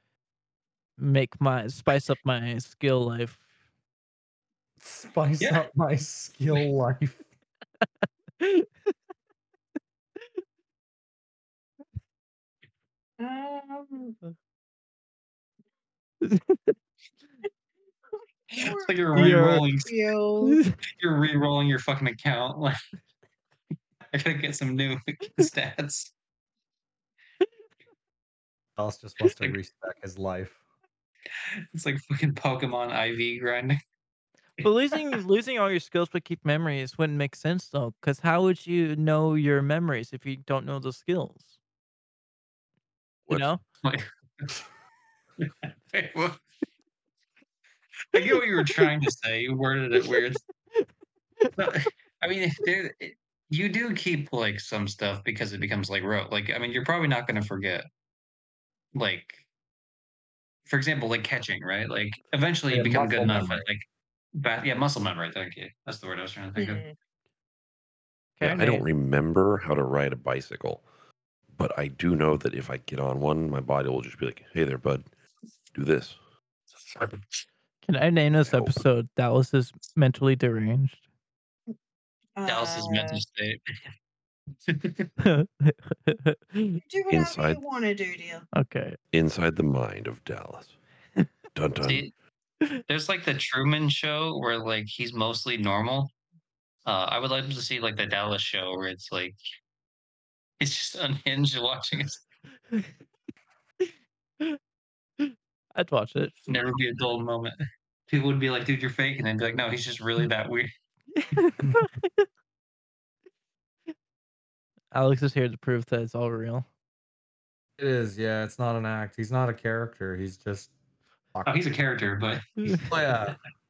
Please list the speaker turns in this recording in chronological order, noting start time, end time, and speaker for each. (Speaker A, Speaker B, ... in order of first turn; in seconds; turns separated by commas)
Speaker A: 1.0-3.4, Speaker B: 4.8-7.2, Speaker C: 5.4-5.6, Speaker A: 8.4-8.7, Speaker D: 13.2-14.2, Speaker A: 16.2-16.8, Speaker D: 18.5-20.6, Speaker C: 18.5-20.0, Speaker A: 19.1-19.7, Speaker A: 20.4-20.8, Speaker C: 20.9-22.8, Speaker C: 24.1-26.1, Speaker B: 28.8-30.6, Speaker C: 31.7-33.8, Speaker A: 34.6-41.5, Speaker E: 43.3-43.5, Speaker A: 43.3-43.6, Speaker C: 43.8-44.6, Speaker C: 45.4-46.4, Speaker C: 48.1-50.4, Speaker C: 51.6-57.9, Speaker C: 59.0-59.5, Speaker C: 60.7-66.8, Speaker B: 62.7-63.7, Speaker D: 66.6-66.9, Speaker A: 68.4-68.9, Speaker E: 68.4-70.8, Speaker E: 71.5-75.1, Speaker E: 75.7-76.2, Speaker C: 76.8-77.4, Speaker A: 77.8-81.0, Speaker E: 78.5-78.8, Speaker D: 82.4-83.2, Speaker C: 82.5-83.8, Speaker C: 84.7-85.1, Speaker A: 85.2-86.8, Speaker D: 86.8-88.5, Speaker E: 87.1-87.6, Speaker A: 88.5-89.0, Speaker E: 89.1-90.8, Speaker E: 91.5-92.1, Speaker C: 91.8-92.1, Speaker C: 92.9-96.1, Speaker C: 96.9-99.4, Speaker C: 100.6-102.2, Speaker A: 105.2-106.3, Speaker C: 106.5-110.7, Speaker A: 111.1-112.3, Speaker A: 114.9-116.7, Speaker B: 117.8-120.7, Speaker B: 121.3-121.7, Speaker C: 121.5-123.1, Speaker A: 122.6-122.8, Speaker B: 122.7-123.4